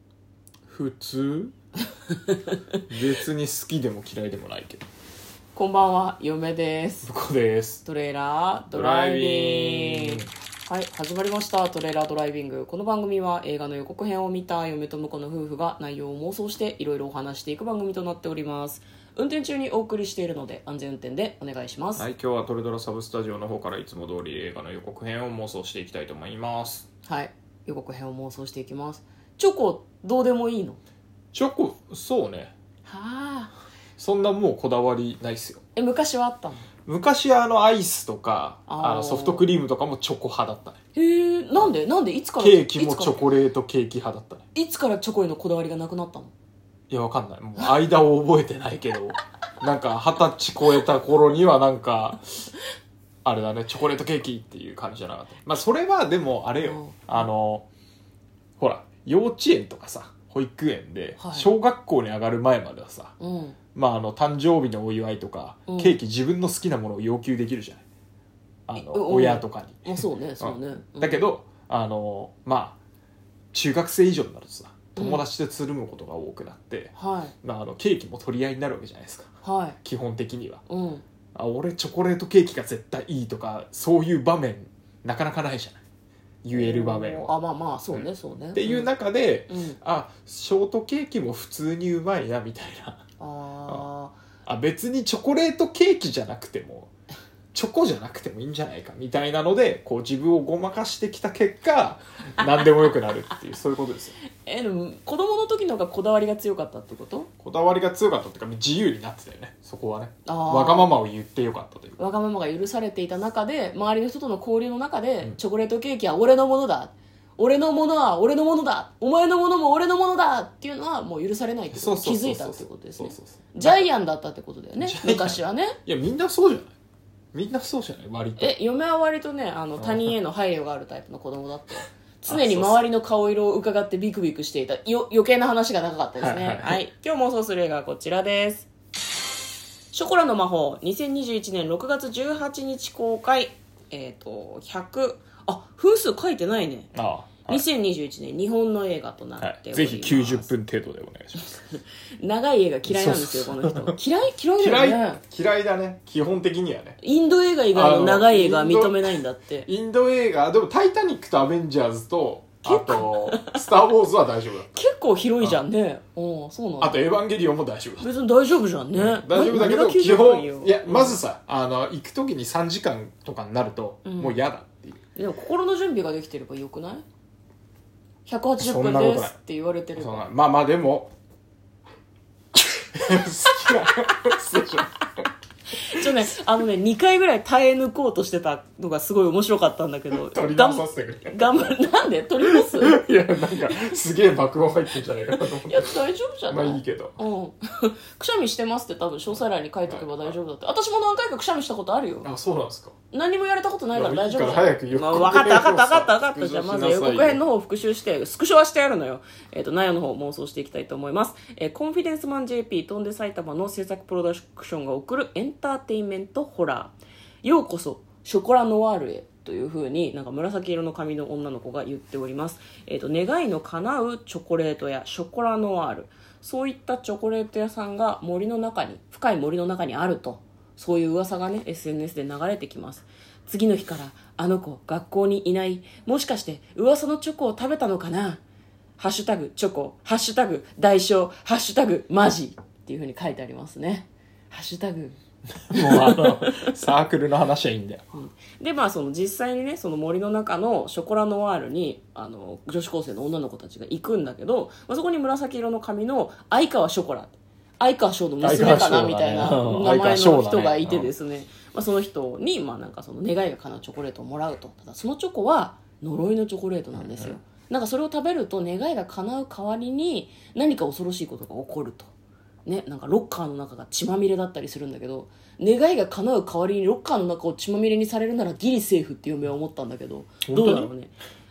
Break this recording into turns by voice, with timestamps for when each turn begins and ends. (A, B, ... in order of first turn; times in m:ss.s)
0:00.7-0:01.5 A
0:02.9-0:04.8 A
0:05.6-0:07.1 B
0:07.0-0:07.8 A
0:07.8-0:22.1 B
0:08.7-0:10.3 A
0:22.0-0:26.9 A
0:27.1-0:30.8 B
0:31.3-0:32.5 A
0:32.9-0:33.5 B
0:34.0-0:35.6 A
0:35.8-0:36.7 B
0:36.9-0:40.8 A
0:38.7-0:39.5 B
0:41.0-0:43.3 B
0:42.4-0:44.4 A
0:44.6-0:46.3 B
0:46.9-0:52.2 A
0:53.2-0:57.7 A
0:56.6-0:57.2 B
0:58.6-1:03.2 A
1:01.2-1:01.5 B
1:03.2-1:03.6 B
1:03.8-1:07.8 A
1:05.7-1:06.0 B
1:08.7-1:12.8 A
1:08.8-1:11.2 B
1:13.5-1:19.3 A
1:15.0-1:15.2 B
1:17.0-1:17.3 B
1:19.4-1:19.8 B
1:19.8-1:20.6 A
1:20.7-1:21.0 B
1:21.4-1:25.8 A
1:26.4-1:27.3 A
1:26.5-1:28.9 B
1:27.9-1:33.0 A
1:29.5-1:29.8 B
1:33.2-1:34.2 B
1:34.5-1:36.9 A
1:37.5-1:44.2 A
1:44.4-1:47.3 B
1:47.4-1:52.0 A
1:50.3-1:50.9 B
1:52.0-2:05.8 B
2:01.7-2:03.9 A
2:04.8-2:06.8 A
2:07.3-2:08.6 A
2:08.4-2:18.7 B
2:09.8-2:10.1 A
2:12.3-2:12.8 A
2:16.2-2:16.8 A
2:19.9-2:26.9 B
2:26.9-2:27.6 A
2:27.5-2:30.5 B
2:29.4-2:31.5 A
2:31.4-2:35.2 B
2:32.9-2:34.0 A
2:34.6-2:37.0 A
2:37.0-2:39.7 B
2:37.7-2:39.1 A
2:39.7-2:44.8 A
2:42.6-2:43.6 B
2:44.7-2:47.2 B
2:46.8-2:48.1 A
2:48.0-2:51.2 B
2:49.0-2:55.0 A
2:54.0-2:54.4 B
2:55.2-2:57.0 B
2:58.3-3:00.3 B
2:58.6-2:59.4 A
3:00.0-3:01.1 A
3:02.6-3:05.0 A
3:05.8-3:13.0 B
3:06.0-3:06.2 A
3:10.1-3:11.8 A
3:12.4-3:16.0 A
3:15.6-3:22.3 B
3:16.5-3:17.2 A
3:19.9-3:20.4 A
3:22.2-3:22.9 A
3:23.1-3:58.4 B
3:23.9-3:27.4 A
3:59.0-4:05.2 B
4:05.7-4:08.0 A
4:05.7-4:06.7 B
4:08.1-4:32.1 B
4:18.4-4:21.1 A
4:27.0-4:27.4 A
4:32.7-4:41.2 B
4:40.5-4:40.9 A